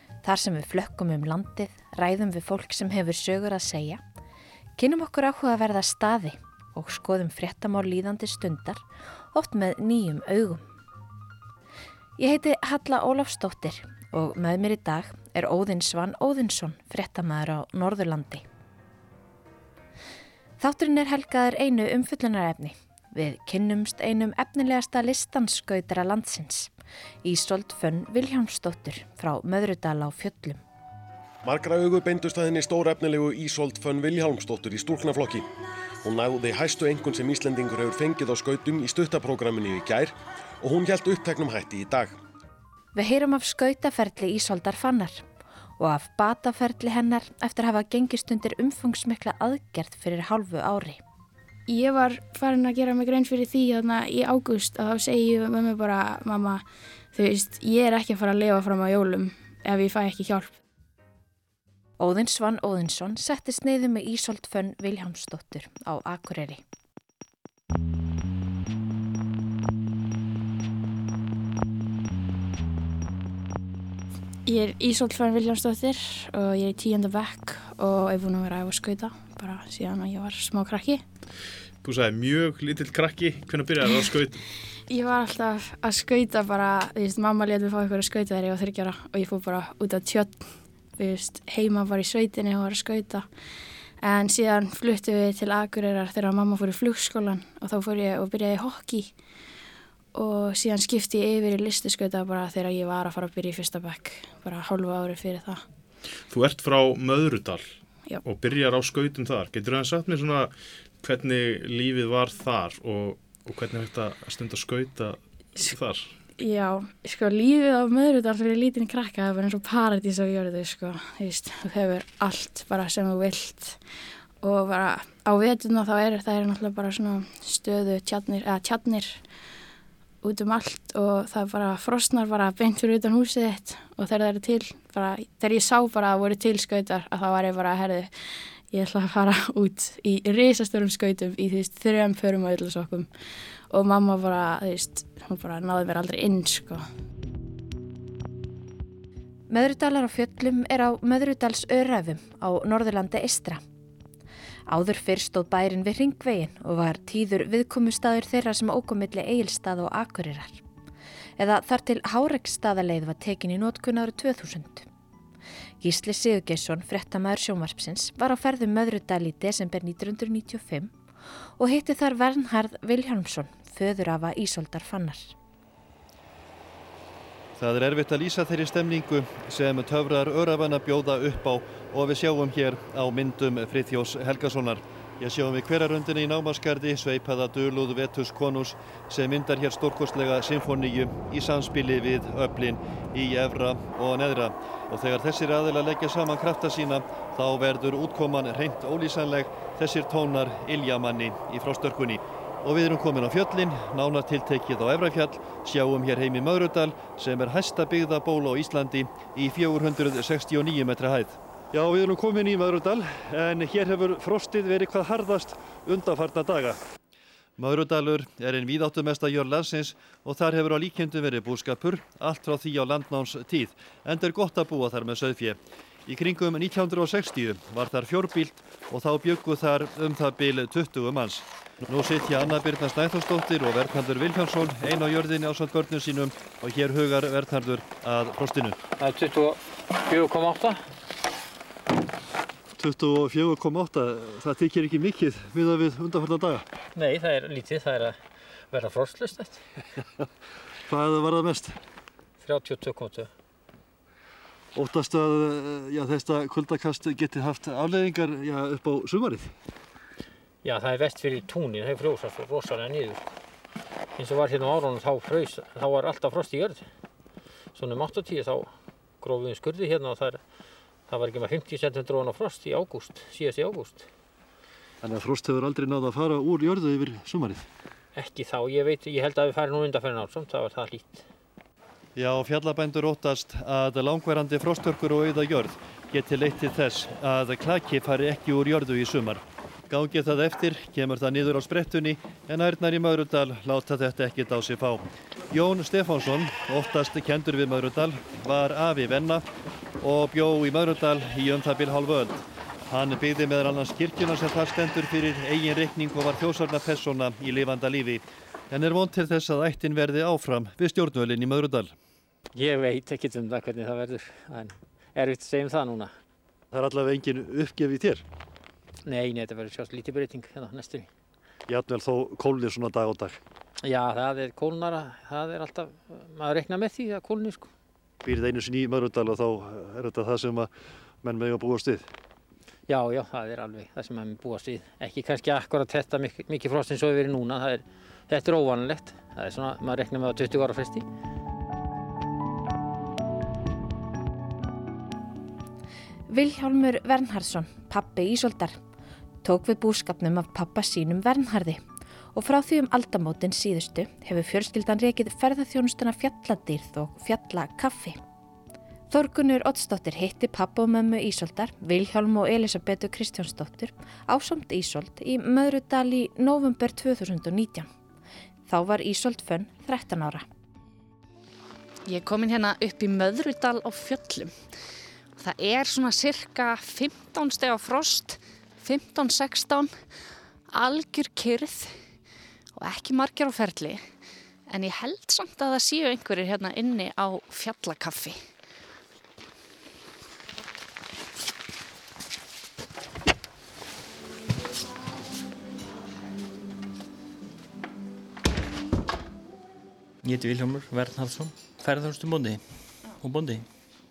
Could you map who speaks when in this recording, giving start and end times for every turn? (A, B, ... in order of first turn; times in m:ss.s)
0:00.2-0:04.0 A
0:04.8-0:08.8 A
0:09.3-0:10.7 A
0:12.2-0:18.4 A
0:20.6-0:26.7 A
0:27.2-0:30.6 A
0:31.4-0:35.5 B
0:36.0-0:42.2 B
0:43.0-0:45.2 A
0:45.8-0:51.0 A
0:51.7-1:00.5 C
1:02.0-1:06.6 A
1:14.4-1:21.0 C
1:21.8-1:24.4 D
1:24.9-1:33.3 C
1:34.0-1:39.1 C
1:40.1-1:45.6 C
1:46.3-1:47.7 D
1:48.2-1:56.1 D
1:56.4-2:03.8 C
2:04.4-2:09.2 C
2:10.2-2:18.1 C
2:18.7-2:23.1 C
2:23.7-2:26.8 C
2:29.5-2:33.6 A
2:34.7-2:40.6 A
2:41.4-2:44.9 A
2:45.8-2:50.9 A
2:51.6-2:55.3 A
2:57.6-3:36.8 E
3:37.6-3:58.8 E
3:59.0-4:00.8 F
4:02.8-4:06.6 E
4:07.0-4:08.2 F
4:08.7-4:09.6 F
4:10.9-4:11.7 E
4:12.4-4:13.3 F
4:14.8-4:19.5 E
4:20.6-4:23.2 F
4:24.2-4:26.8 F
4:27.8-4:28.7 F
4:29.2-4:30.4 F
4:31.1-4:34.1 F
4:35.0-4:37.7 E
4:38.2-4:41.3 F
4:42.2-4:59.5 E
5:00.0-5:11.9 E
5:12.5-5:16.1 F
5:16.7-5:18.2 E
5:19.0-5:21.1 F
5:21.7-5:23.4 E
5:23.8-5:27.7 F
5:28.2-5:30.7 E
5:31.2-5:32.1 E
5:32.9-5:41.0 F
5:46.3-5:48.8 A
5:49.4-5:51.8 A
5:52.4-5:58.2 A
5:59.1-6:07.9 A
6:08.7-6:10.4 A
6:12.1-6:14.6 G
6:15.4-6:19.9 G
6:20.7-6:21.9 G
6:22.8-6:24.0 G
6:24.7-6:28.4 G
6:40.2-6:42.6 H
6:43.2-6:43.7 H